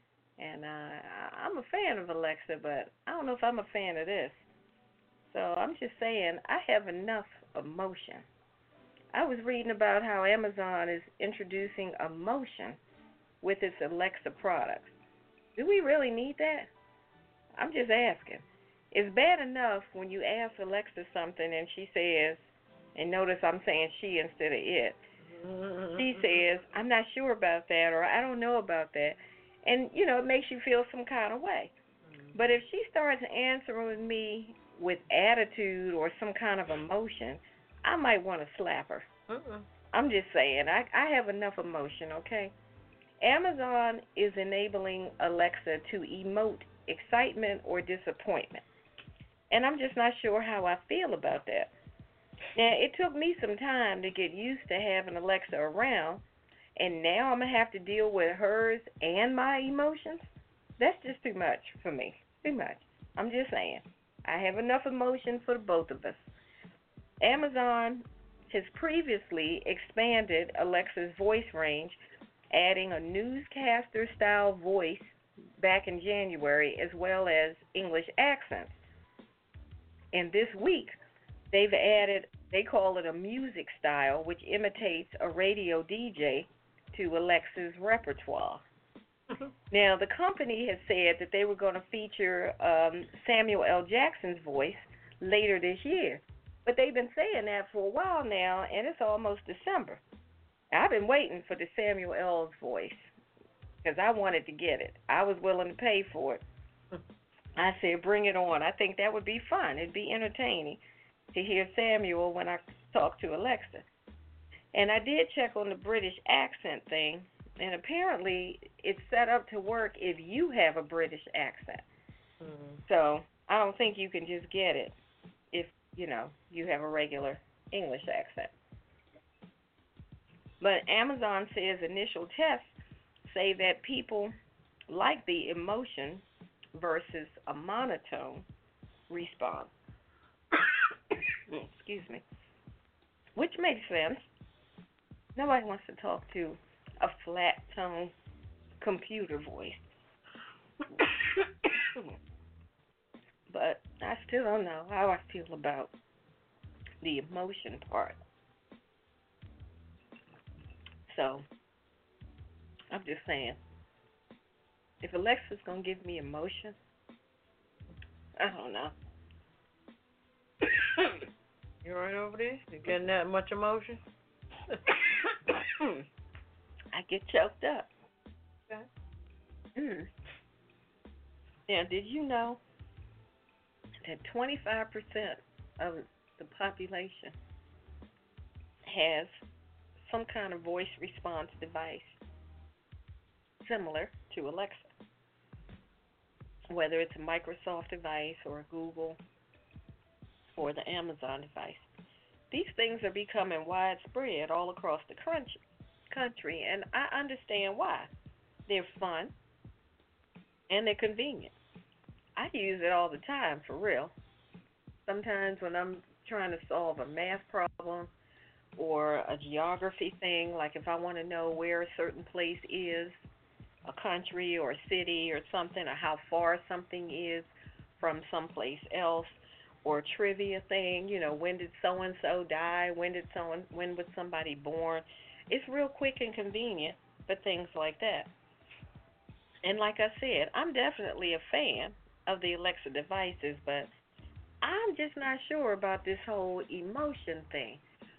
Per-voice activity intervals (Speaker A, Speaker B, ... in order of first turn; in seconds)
Speaker A: 0.4-4.5, 5.3-8.2, 9.1-12.8, 13.4-15.0, 15.6-16.7, 17.6-25.0, 26.0-31.7, 32.3-39.1, 39.9-42.5, 43.2-48.6, 49.5-51.7, 52.5-56.2, 56.8-60.3, 60.8-66.3, 67.2-72.0, 72.5-78.8, 80.1-81.0, 81.5-88.6, 89.7-100.0, 100.7-103.1, 103.8-106.4, 107.6-110.8, 111.3-113.9, 114.7-121.9, 122.9-125.0, 125.5-128.5, 130.6-134.3, 134.9-136.2, 136.8-138.4, 139.1-139.7, 141.5-142.2, 143.4-144.3, 145.4-148.1, 148.8-149.8, 153.5-155.9, 157.0-158.2, 161.1-161.4, 162.9-163.6, 165.0-166.8, 168.4-168.9, 175.8-176.0, 176.9-177.9, 179.8-180.1, 181.7-182.6, 184.0-187.3, 188.8-189.4, 190.0-192.2, 193.6-194.9, 196.7-199.2, 200.5-201.9, 202.5-208.1, 208.7-209.3, 210.7-211.5, 212.4-214.1, 215.1-218.1, 218.8-223.2, 223.9-238.3, 239.6-243.9, 244.6-247.8
Speaker B: 25.2-26.4, 32.0-32.6, 39.3-39.7, 122.4-122.8, 171.8-174.0